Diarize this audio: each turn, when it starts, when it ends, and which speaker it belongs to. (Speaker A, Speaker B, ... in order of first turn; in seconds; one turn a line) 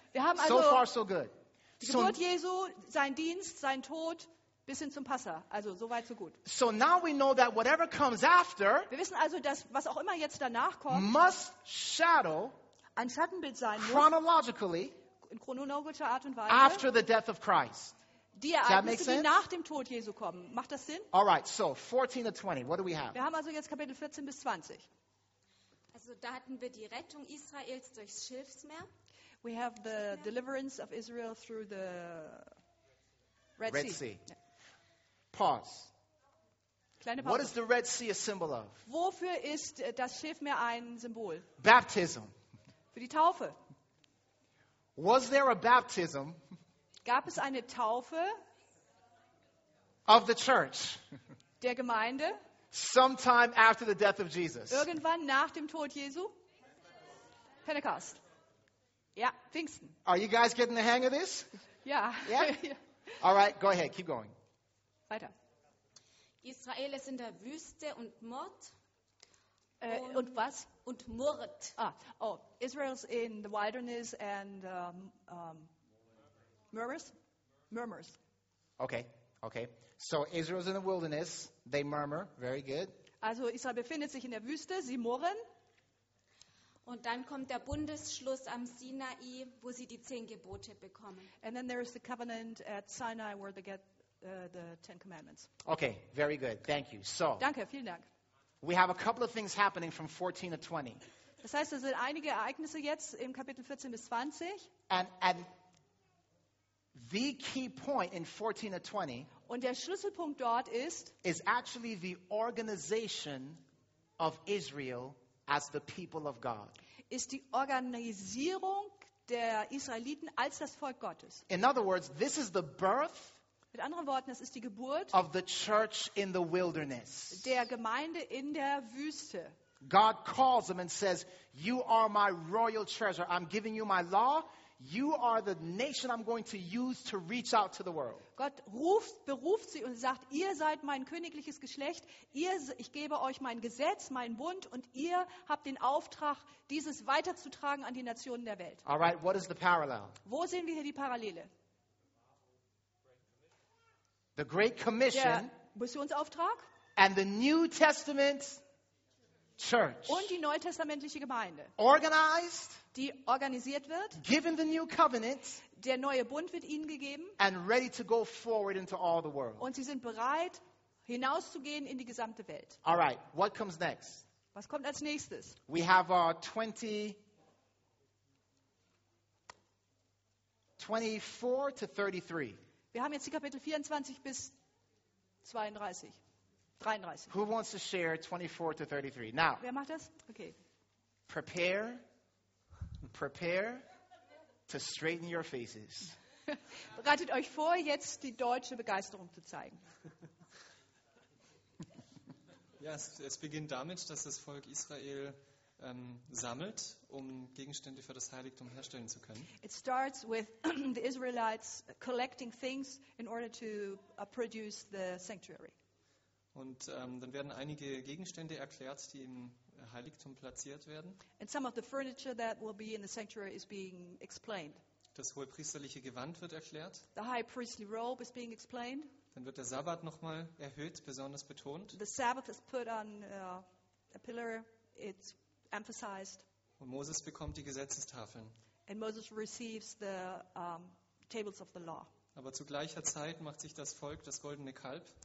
Speaker A: 0.1-0.8
Speaker B: 0.3-2.2
Speaker A: 1.8-6.4
Speaker B: 6.4-8.9
Speaker A: 8.9-11.1
Speaker B: 10.9-12.6
Speaker A: 13.0-14.1
Speaker B: 13.8-14.9
Speaker A: 15.2-16.9
Speaker B: 16.5-17.9
Speaker A: 18.4-21.1
Speaker B: 18.6-19.4
Speaker B: 21.1-23.2
Speaker A: 23.1-24.9
Speaker C: 25.9-28.9
Speaker A: 29.4-32.5
Speaker A: 33.6-34.3
Speaker B: 33.7-34.2
Speaker B: 35.3-35.9
Speaker A: 37.0-37.5
Speaker B: 37.2-38.8
Speaker A: 38.9-41.5
Speaker B: 41.6-42.3
Speaker A: 42.9-43.5
Speaker B: 45.0-46.4
Speaker A: 47.0-48.3
Speaker B: 50.1-51.0
Speaker A: 51.6-52.4
Speaker B: 52.7-54.9
Speaker A: 54.7-56.3
Speaker A: 57.6-58.2
Speaker A: 59.1-60.0
Speaker B: 60.0-61.5
Speaker A: 61.8-62.8
Speaker B: 62.2-62.6
Speaker B: 63.2-64.3
Speaker C: 66.4-68.7
Speaker A: 69.8-70.7
Speaker C: 69.8-71.7
Speaker A: 71.8-75.7
Speaker A: 76.7-77.1
Speaker A: 77.7-78.2
Speaker B: 78.8-83.0
Speaker A: 83.2-85.4
Speaker C: 86.8-91.3
Speaker A: 91.4-95.5
Speaker B: 95.6-97.5
Speaker A: 97.4-98.1
Speaker B: 98.6-101.0
Speaker A: 101.4-104.7
Speaker B: 104.9-105.5
Speaker B: 106.9-109.3
Speaker A: 109.5-111.1
Speaker B: 111.2-113.6
Speaker B: 114.2-116.8
Speaker A: 117.1-121.4
Speaker B: 121.5-123.4
Speaker A: 123.7-125.2
Speaker B: 125.1-127.5
Speaker A: 127.3-129.5
Speaker B: 129.8-138.2
Speaker A: 138.3-148.8
Speaker B: 148.8-150.2
Speaker A: 150.2-151.5
Speaker B: 154.3-155.5
Speaker A: 155.1-156.7
Speaker B: 156.9-158.6
Speaker B: 159.6-160.3
Speaker A: 160.1-161.7
Speaker B: 161.8-162.8
Speaker A: 162.9-164.2
Speaker B: 164.2-165.6
Speaker A: 165.7-167.4
Speaker B: 167.4-169.7
Speaker A: 169.6-172.8
Speaker B: 172.8-174.2
Speaker A: 174.5-175.6
Speaker B: 175.7-177.2
Speaker B: 180.8-182.6
Speaker A: 182.9-184.5
Speaker A: 185.4-186.2
Speaker A: 186.8-187.3
Speaker B: 187.3-189.6
Speaker A: 189.6-190.6
Speaker B: 191.3-192.0
Speaker B: 193.1-193.8
Speaker B: 194.7-196.2
Speaker A: 196.5-199.8
Speaker D: 202.8-209.5
Speaker A: 209.6-215.7
Speaker D: 216.5-221.2
Speaker A: 221.4-224.8
Speaker D: 225.1-227.1
Speaker A: 227.1-229.1
Speaker D: 229.3-232.0
Speaker A: 231.9-236.4
Speaker D: 236.8-238.5
Speaker A: 238.9-242.1
Speaker D: 242.3-245.1